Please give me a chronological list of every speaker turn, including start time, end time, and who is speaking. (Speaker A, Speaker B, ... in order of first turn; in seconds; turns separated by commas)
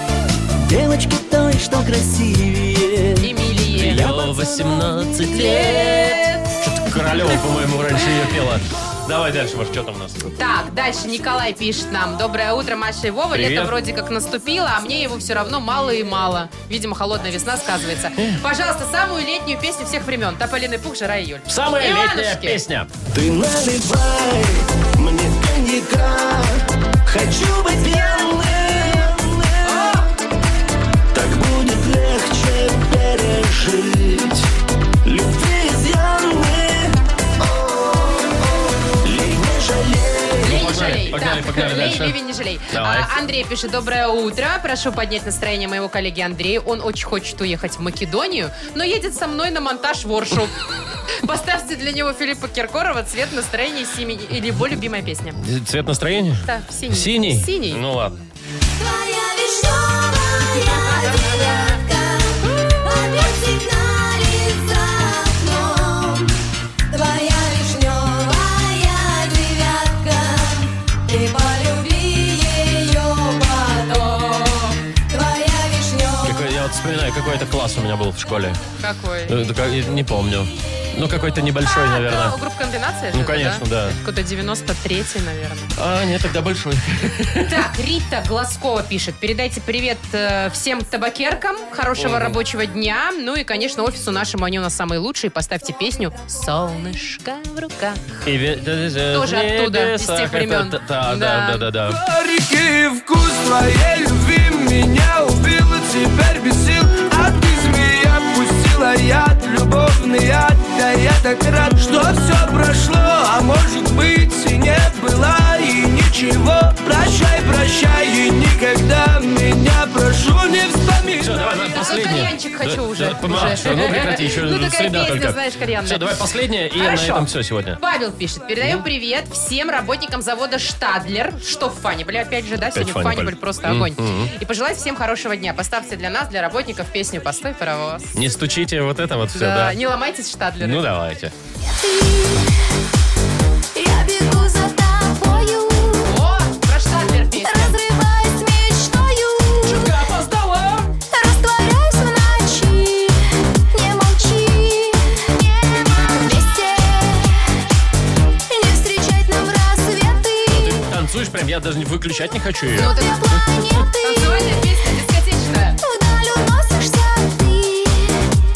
Speaker A: 0.7-3.2, Speaker B: 3.2-4.2, Speaker C: 3.8-10.3, Speaker B: 5.3-6.6, Speaker B: 10.3-22.6, Speaker C: 13.3-13.7, Speaker C: 21.5-22.9, Speaker A: 23.1-30.0, Speaker B: 29.6-30.1, Speaker A: 31.1-34.5, Speaker A: 35.0-40.5, Speaker B: 40.4-50.6, Speaker C: 40.4-42.2, Speaker C: 42.7-43.1, Speaker B: 51.2-55.4, Speaker C: 55.4-58.2, Speaker B: 56.4-57.8, Speaker D: 58.8-66.3, Speaker D: 66.9-76.4, Speaker C: 76.2-78.6, Speaker B: 78.8-79.3, Speaker C: 79.3-82.4, Speaker B: 81.7-85.7, Speaker C: 83.1-84.0, Speaker C: 85.8-87.7, Speaker B: 87.4-98.3, Speaker C: 92.0-92.4, Speaker C: 98.3-102.0, Speaker B: 99.1-101.7, Speaker A: 101.9-121.4, Speaker C: 121.2-127.8, Speaker B: 121.7-138.2, Speaker C: 132.6-134.3, Speaker C: 138.2-139.8, Speaker B: 139.3-140.9, Speaker C: 140.6-141.3, Speaker D: 141.8-142.5, Speaker D: 143.8-146.1, Speaker B: 146.0-147.8, Speaker D: 147.4-149.9, Speaker C: 149.7-150.9, Speaker D: 151.1-153.2, Speaker D: 153.7-157.4, Speaker D: 158.5-160.8, Speaker C: 160.5-163.7, Speaker B: 162.7-163.3, Speaker D: 162.8-164.7, Speaker B: 164.0-165.8, Speaker D: 165.8-168.2